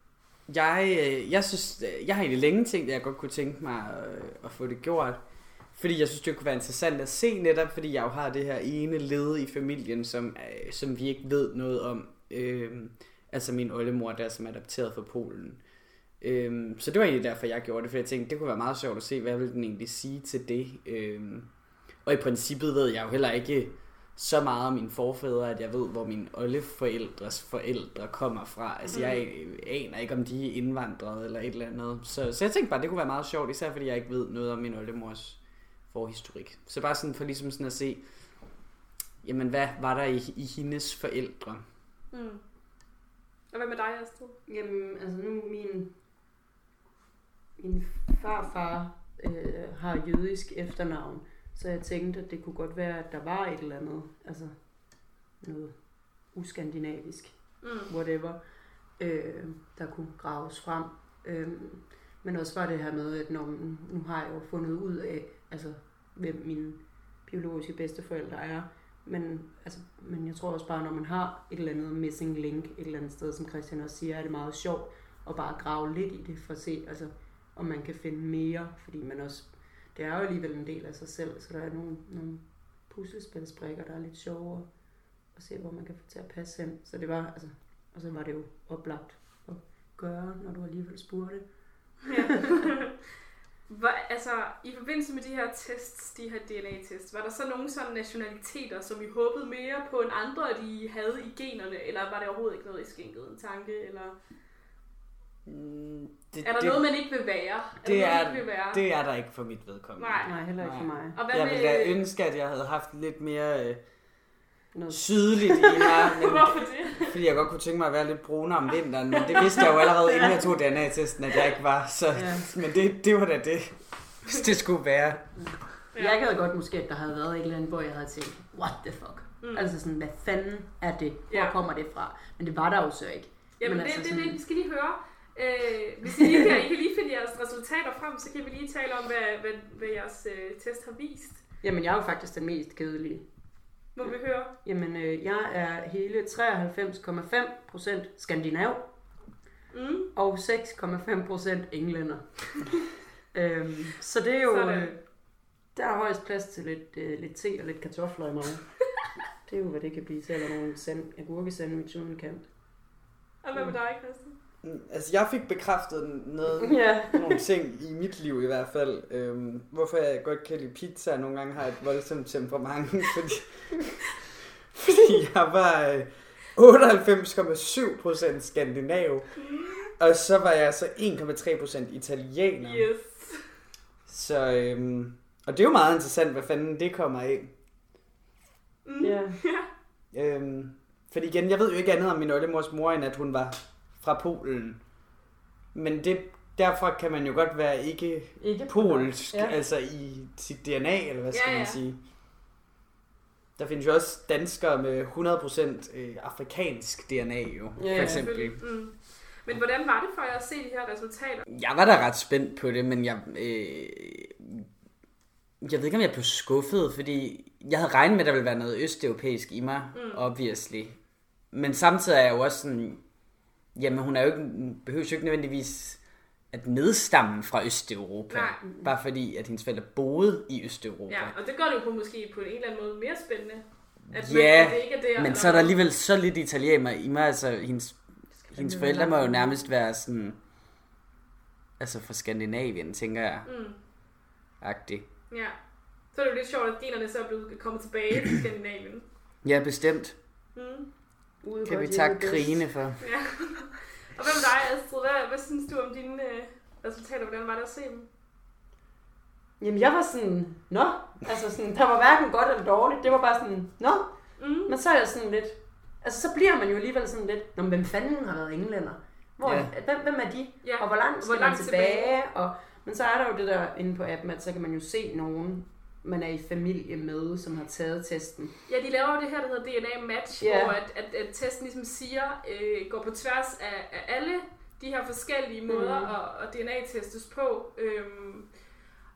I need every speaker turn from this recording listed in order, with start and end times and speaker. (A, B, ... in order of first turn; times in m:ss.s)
0:00.5-0:38.6 A
0:28.9-0:29.2 B
0:39.2-0:41.6 A
0:42.1-0:42.4 B
0:43.5-0:44.4 B
0:44.5-0:46.0 C
0:47.6-1:24.8 C
0:57.6-0:57.9 B
1:25.3-1:32.1 C
1:32.1-1:33.0 B
1:33.7-1:44.2 B
1:45.5-1:46.9 A
1:46.4-1:48.8 B
1:47.8-1:54.4 A
1:50.0-1:52.0 B
1:50.2-1:51.2 C
1:54.7-1:55.6 C
1:54.9-2:05.7 A
1:56.2-1:57.1 B
1:59.4-2:00.4 B
2:02.1-2:02.5 C
2:05.4-2:14.4 C
2:09.4-2:09.7 B
2:11.3-2:11.6 B
2:13.6-2:21.4 B
2:21.6-2:29.4 C
2:24.0-2:24.5 B
2:29.7-2:30.1 B
2:30.1-2:32.8 C
2:33.3-2:38.8 C
2:34.5-2:34.9 B
2:39.4-2:42.5 C
2:43.4-2:44.4 B
2:43.5-2:43.8 C
2:44.6-2:54.1 A
2:46.6-2:47.3 C
2:54.7-3:02.9 A
2:59.4-2:59.8 B
3:02.6-3:03.5 B
3:04.1-3:07.6 A
3:08.8-3:09.7 B
3:09.0-3:09.4 C
3:10.1-3:15.2 A
3:15.7-3:22.0 A
3:18.4-3:19.6 C
3:21.3-3:21.8 B
3:23.6-3:29.0 A
3:27.8-3:28.5 C
3:27.9-3:31.5 B
3:31.5-3:34.7 A
3:35.6-3:51.4 A
3:39.9-3:40.2 B
3:48.3-3:48.6 B
3:48.6-3:48.9 C
3:51.1-3:55.7 B
3:54.1-4:00.4 A
3:58.3-3:59.7 C
4:01.8-4:03.5 A
4:03.4-4:03.8 B
4:04.6-4:05.1 A
4:05.3-4:09.1 B
4:09.4-4:10.2 A
4:10.6-4:10.9 B
4:11.4-4:12.7 C
4:11.7-4:13.2 A
4:13.0-4:18.1 B
4:19.6-4:38.6 C
4:24.4-4:24.7 B
4:29.4-4:29.7 A
4:30.6-4:32.2 B
4:38.7-4:48.6 B
4:40.4-4:40.8 C
4:45.7-4:46.1 C